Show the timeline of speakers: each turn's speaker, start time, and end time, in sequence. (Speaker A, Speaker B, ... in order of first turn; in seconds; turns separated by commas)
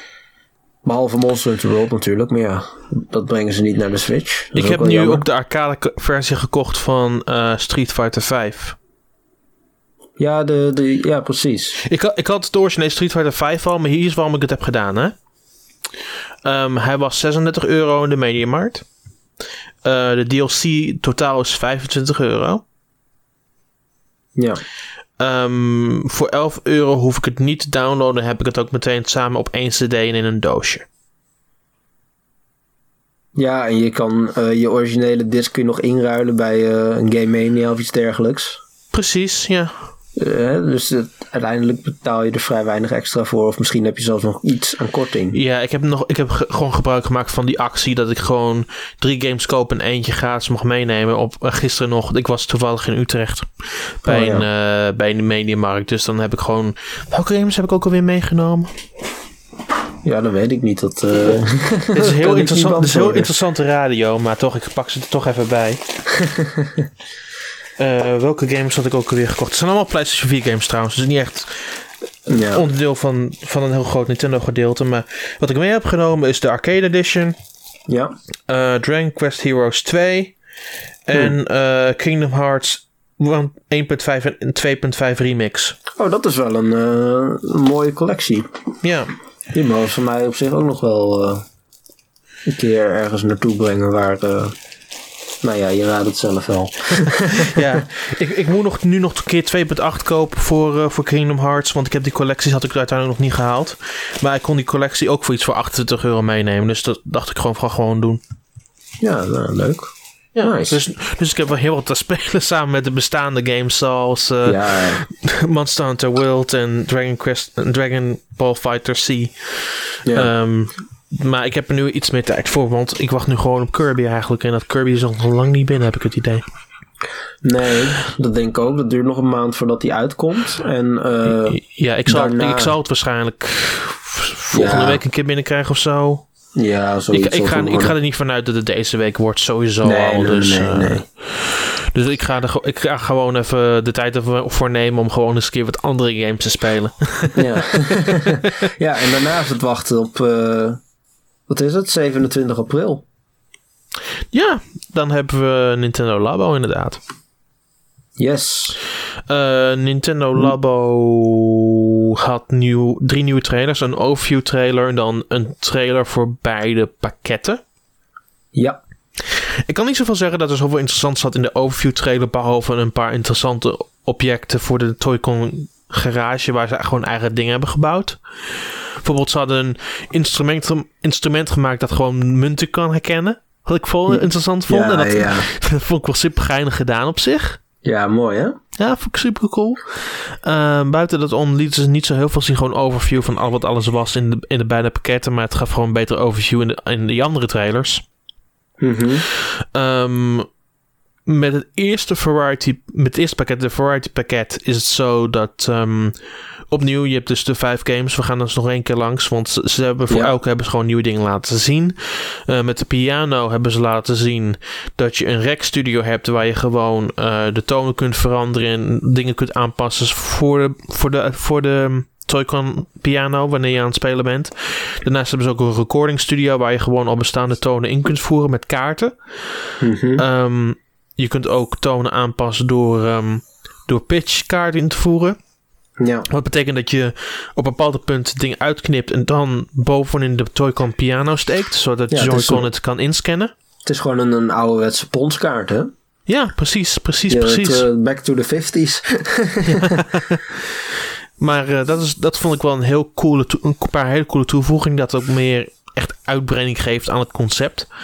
Speaker A: 0.8-5.2, Speaker B: 4.5-8.8, Speaker A: 10.2-11.8, Speaker B: 11.8-15.2, Speaker B: 16.4-18.8, Speaker B: 19.8-22.6, Speaker A: 24.4-24.6, Speaker B: 25.2-30.9, Speaker A: 33.4-38.6, Speaker B: 38.9-39.7, Speaker A: 40.1-45.4, Speaker B: 45.3-58.7, Speaker A: 54.0-54.5, Speaker A: 60.0-63.3, Speaker B: 61.9-65.8, Speaker A: 66.1-66.9, Speaker B: 67.8-77.3, Speaker A: 72.3-72.6, Speaker A: 77.9-78.1, Speaker B: 78.5-80.4, Speaker B: 81.0-85.8, Speaker A: 86.0-88.5, Speaker B: 88.8-89.1, Speaker A: 89.5-91.4, Speaker A: 92.5-94.5, Speaker A: 95.4-97.6, Speaker B: 97.3-108.2, Speaker A: 109.0-110.8, Speaker B: 110.3-126.4, Speaker A: 114.4-115.0, Speaker A: 120.0-120.3, Speaker A: 127.4-132.7, Speaker B: 131.4-136.3, Speaker A: 134.5-135.0, Speaker A: 136.5-137.9, Speaker B: 137.1-148.5, Speaker A: 139.8-141.0, Speaker A: 147.3-150.8, Speaker A: 151.5-153.0, Speaker B: 154.3-157.0, Speaker A: 158.2-158.8, Speaker B: 159.3-167.6, Speaker A: 168.5-168.8, Speaker B: 169.2-187.6, Speaker A: 184.1-185.5, Speaker A: 187.8-188.6, Speaker B: 188.8-198.0, Speaker A: 198.8-199.2, Speaker B: 199.3-200.5, Speaker B: 201.3-206.2, Speaker B: 206.7-235.4, Speaker A: 229.8-230.2, Speaker A: 236.0-236.2, Speaker B: 236.3-243.5, Speaker A: 242.1-242.7, Speaker A: 243.8-245.9, Speaker B: 246.3-247.8, Speaker A: 247.3-250.1, Speaker B: 249.7-257.9